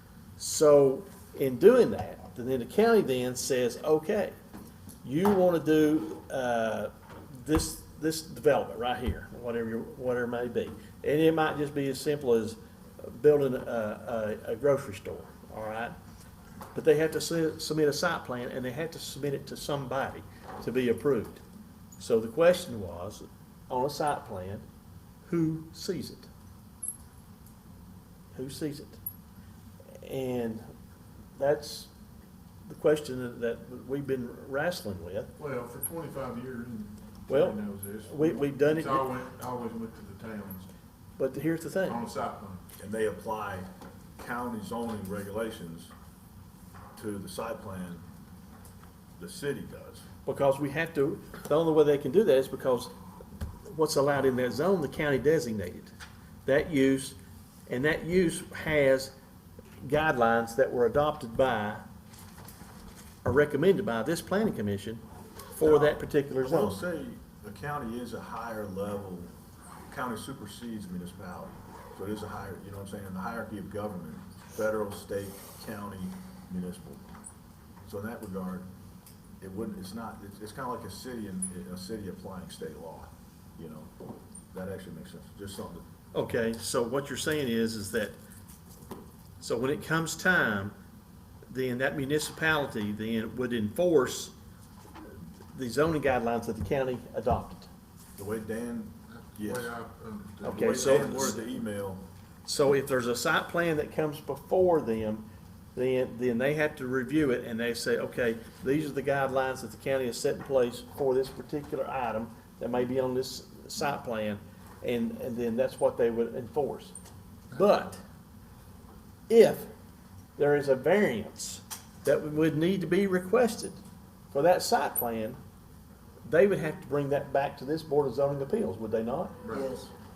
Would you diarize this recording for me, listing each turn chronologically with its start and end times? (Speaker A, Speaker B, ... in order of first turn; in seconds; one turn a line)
Speaker A: 0.4-4.3
Speaker A: 5.0-15.9
Speaker A: 16.7-21.4
Speaker A: 22.0-24.6
Speaker A: 25.2-26.3
Speaker A: 28.3-29.0
Speaker A: 30.0-30.6
Speaker A: 31.4-31.9
Speaker A: 32.6-35.3
Speaker B: 35.4-40.7
Speaker A: 37.3-39.1
Speaker A: 41.2-42.0
Speaker B: 41.9-42.6
Speaker C: 42.8-43.7
Speaker C: 44.2-45.9
Speaker C: 47.0-48.0
Speaker C: 49.2-50.0
Speaker A: 50.2-52.9
Speaker A: 53.7-55.9
Speaker A: 56.5-59.1
Speaker A: 59.8-61.8
Speaker A: 63.2-65.0
Speaker A: 65.5-66.8
Speaker C: 65.6-69.3
Speaker C: 69.9-77.0
Speaker C: 77.8-78.7
Speaker C: 79.4-83.9
Speaker C: 84.5-85.8
Speaker A: 86.1-88.2
Speaker A: 89.4-90.7
Speaker A: 91.5-94.3
Speaker A: 95.5-97.7
Speaker C: 98.2-99.7
Speaker B: 99.1-101.3
Speaker A: 100.4-101.4
Speaker C: 100.4-102.0
Speaker A: 102.4-116.9
Speaker A: 117.5-118.0
Speaker A: 119.3-119.7
Speaker A: 120.4-123.8
Speaker A: 124.3-125.4
Speaker A: 126.2-129.4
Speaker B: 129.4-129.8